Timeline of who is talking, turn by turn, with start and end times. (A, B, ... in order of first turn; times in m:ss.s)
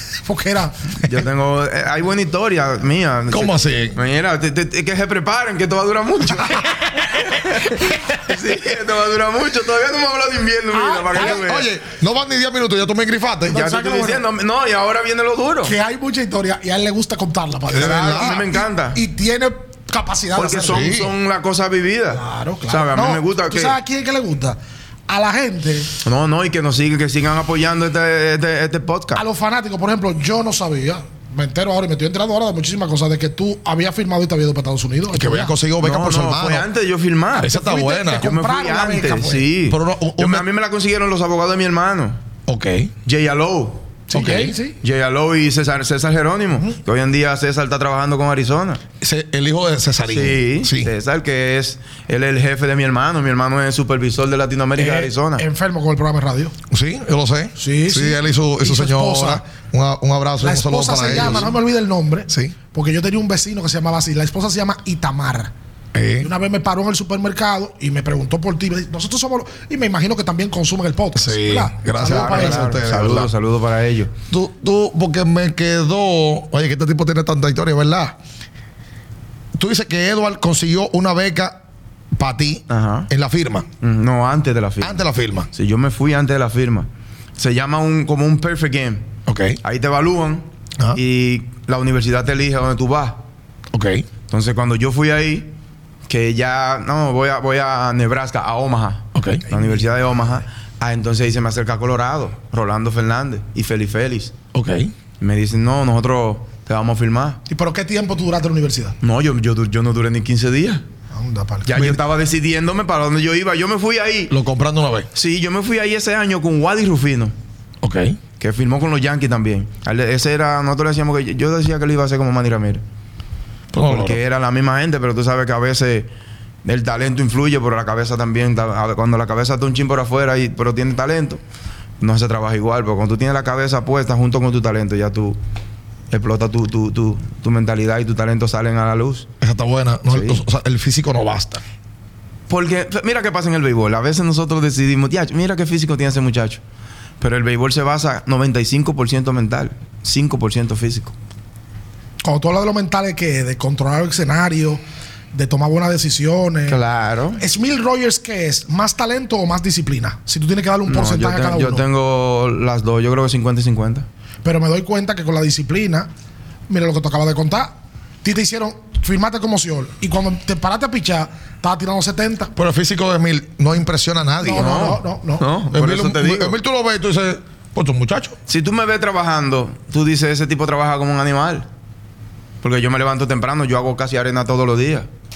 0:00.2-0:00.8 A
0:01.0-0:11.7 B
0:03.3-0:04.0 C
0:10.7-0:11.4 A
0:11.1-0:13.7 C
0:13.5-0:14.2 A
0:13.5-0:15.7 B
0:15.6-0:21.0 A
0:17.7-0:18.5 C
0:17.7-0:19.0 B
0:20.3-0:23.8 B
0:20.6-0:21.1 C
0:22.1-0:25.9 A
0:26.0-0:29.2 B
0:29.2-0:35.5 A
0:35.1-0:36.7 C
0:35.8-0:37.6 B
0:37.4-0:38.3 C
0:37.4-0:39.5 A
0:38.2-0:42.2 B
0:39.7-0:40.5 C
0:42.5-0:42.9 C
0:43.0-0:43.9 B
0:44.1-0:44.8 A
0:44.1-0:44.6 C
0:44.8-0:48.8 B
0:49.0-0:50.9 C
0:50.1-0:55.4 B
0:54.8-0:56.5 A
0:56.7-1:01.6 C
0:57.6-0:59.4 A
1:00.4-1:05.5 A
1:02.3-1:02.6 C
1:05.9-1:06.3 C
1:06.2-1:12.7 A
1:11.2-1:13.3 C
1:12.0-1:14.1 B
1:14.3-1:18.2 C
1:19.6-1:21.6 C
1:22.2-1:23.7 C
1:22.7-1:23.1 B
1:23.8-1:25.0 B
1:24.8-1:25.5 C
1:25.5-1:29.1 B
1:29.3-1:29.6 C
1:29.6-1:33.2 B
1:33.7-1:34.0 C
1:34.3-1:35.5 B
1:36.1-1:44.3 B
1:39.2-1:39.4 C
1:39.5-1:39.9 A
1:44.5-1:44.9 C
1:45.2-1:47.4 B
1:47.5-1:49.0 A
1:49.0-1:50.8 B
1:51.1-1:51.8 A
1:51.7-1:54.3 B
1:54.3-1:55.1 C
1:55.1-1:57.3 B
1:57.8-1:58.2 C
1:58.4-2:02.8 B
2:03.7-2:04.2 C
2:03.8-2:06.1 B
2:06.6-2:11.4 B
2:12.0-2:15.4 B
2:16.1-2:19.3 B
2:19.4-2:21.6 C
2:20.1-2:20.4 B
2:22.5-2:26.6 B
2:27.2-2:31.1 B
2:32.2-2:34.8 A
2:35.3-2:36.8 A
2:36.7-2:37.4 B
2:37.4-2:41.8 A
2:40.9-2:44.1 B
2:44.4-2:46.1 A
2:46.7-2:47.7 A
2:48.2-2:52.5 A
2:52.6-2:54.8 C
2:54.4-2:55.5 A
2:54.6-2:56.6 B
2:55.7-2:58.4 C
2:58.5-3:01.7 B
3:02.6-3:05.1 B